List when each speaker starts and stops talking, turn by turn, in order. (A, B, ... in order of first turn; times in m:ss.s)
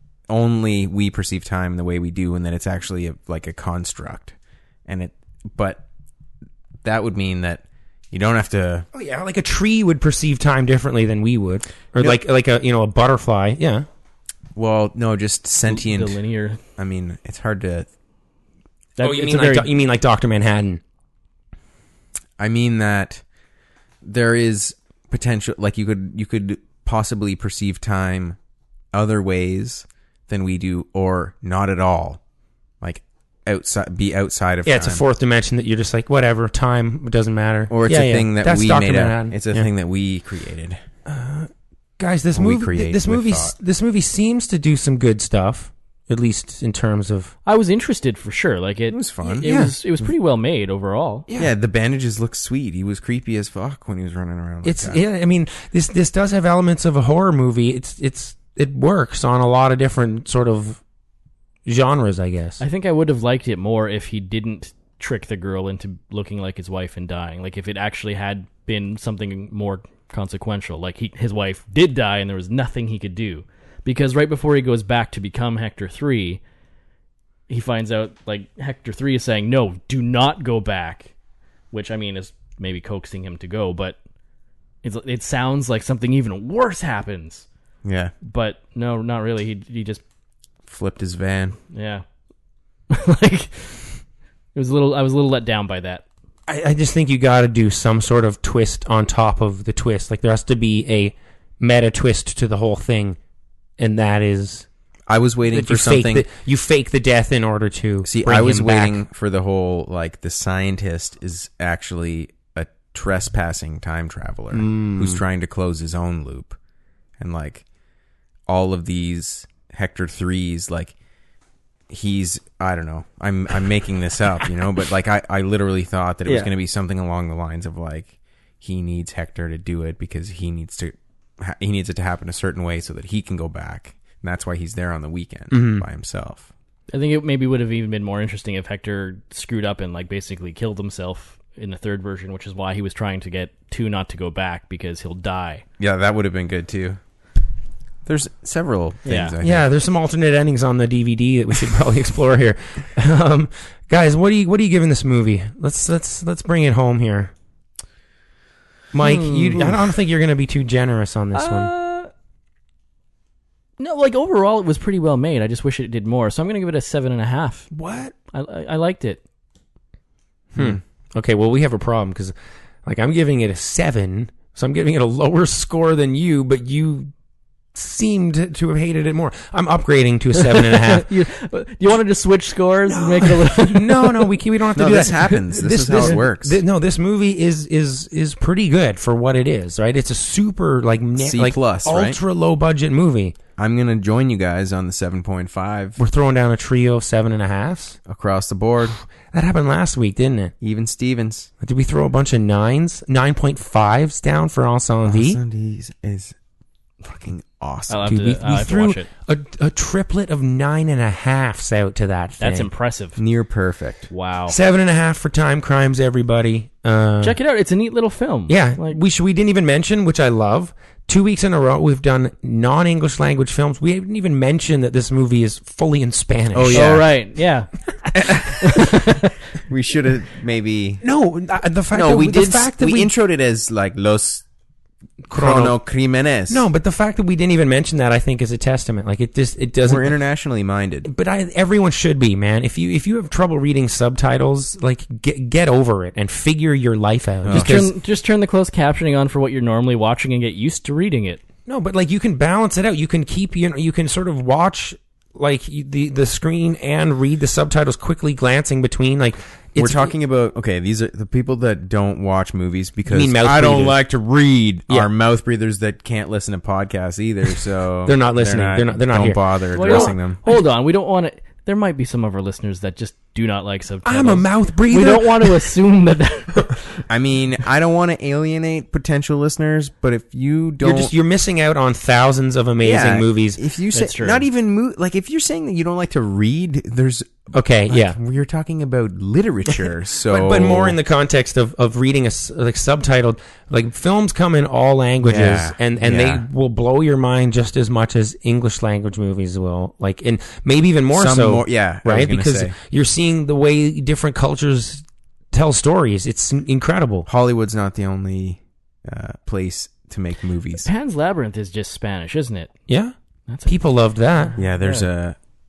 0:00.3-0:04.3 A
0:04.9-0:05.8 A
0:06.8-0:08.8 A
0:08.9-0:13.9 B
0:14.6-0:16.2 A
0:15.7-0:16.6 C
0:16.8-0:17.9 A
0:19.0-0:19.7 C
0:19.0-0:20.8 B
0:22.4-0:23.2 A
0:24.0-0:28.4 A
0:28.9-0:32.2 A
0:32.8-0:35.0 A
0:34.6-0:39.7 B
0:37.7-0:40.8 A
0:41.0-0:47.3 B
0:42.3-0:43.5 A
0:47.4-0:51.2 C
0:48.9-0:49.5 A
0:49.4-0:49.7 B
0:51.3-0:51.5 B
0:51.4-0:55.0 A
0:54.6-1:00.8 B
1:01.6-1:02.6 B
1:02.6-1:16.4 C
1:17.5-1:21.1 C
1:21.7-1:24.0 C
1:24.8-1:27.4 C
1:27.8-1:28.1 A
1:28.2-1:30.0 C
1:30.7-1:31.6 A
1:31.7-1:32.0 C
1:32.9-1:33.9 C
1:34.5-1:36.0 C
1:36.5-1:43.2 B
1:43.8-1:44.7 B
1:45.1-1:46.2 A
1:45.5-1:49.0 B
1:48.0-1:56.6 A
1:54.5-1:55.2 B
1:57.2-1:57.6 A
1:58.5-2:00.9 A
2:01.9-2:16.5 A
2:06.2-2:06.5 B
2:15.5-2:15.8 B
2:16.9-2:25.6 C
2:25.8-2:27.0 A
2:28.0-2:29.7 A
2:29.0-2:29.3 C
2:29.4-2:37.3 B
2:38.9-2:41.7 B
2:39.0-2:39.7 C
2:41.3-2:42.1 C
2:43.8-2:47.7 C
2:47.7-2:48.1 B
2:48.3-2:49.2 C
2:50.5-2:50.8 A
2:50.5-2:57.1 B
2:57.7-3:01.1 B
3:00.3-3:04.1 C
3:02.9-3:13.4 B
3:04.7-3:06.6 A
3:11.2-3:12.2 A
3:13.6-3:16.0 A
3:16.0-3:18.0 B
3:18.1-3:19.0 A
3:18.9-3:20.5 B
3:20.6-3:21.5 A
3:21.6-3:25.4 B
3:25.0-3:26.3 A
3:27.0-3:28.1 A
3:27.9-3:29.1 C
3:28.0-3:32.7 B
3:32.4-3:33.2 C
3:33.2-3:34.1 A
3:34.1-3:34.6 C
3:34.5-3:37.4 B
3:37.2-3:39.0 C
3:38.5-3:47.0 B
3:46.5-3:47.1 A
3:46.7-3:47.7 C
3:48.2-3:48.7 A
3:48.6-3:49.2 C
3:49.6-3:51.0 A
3:51.0-3:53.1 B
3:51.9-3:54.4 A
3:55.3-3:55.8 B
3:55.3-3:56.6 A
3:56.5-4:00.2 B
3:59.8-4:01.1 A
4:01.0-4:07.9 B
4:07.4-4:07.9 A
4:07.5-4:11.4 C
4:11.7-4:20.1 B
4:19.8-4:30.4 A
4:23.1-4:24.0 B
4:28.0-4:30.1 B
4:29.7-4:37.0 C
4:34.0-4:35.7 B
4:37.1-4:41.1 A
4:40.8-4:43.6 B
4:42.8-4:51.0 A
4:43.9-4:44.4 C
4:47.5-4:48.2 B
4:50.3-5:07.3 B
4:55.2-4:56.4 A
5:01.1-5:02.7 A
5:07.3-5:10.9 A
5:10.8-5:12.7 C
5:12.9-5:13.1 B
5:13.5-5:13.8 C
5:13.6-5:14.6 B
5:14.3-5:15.0 C
5:14.6-5:15.4 A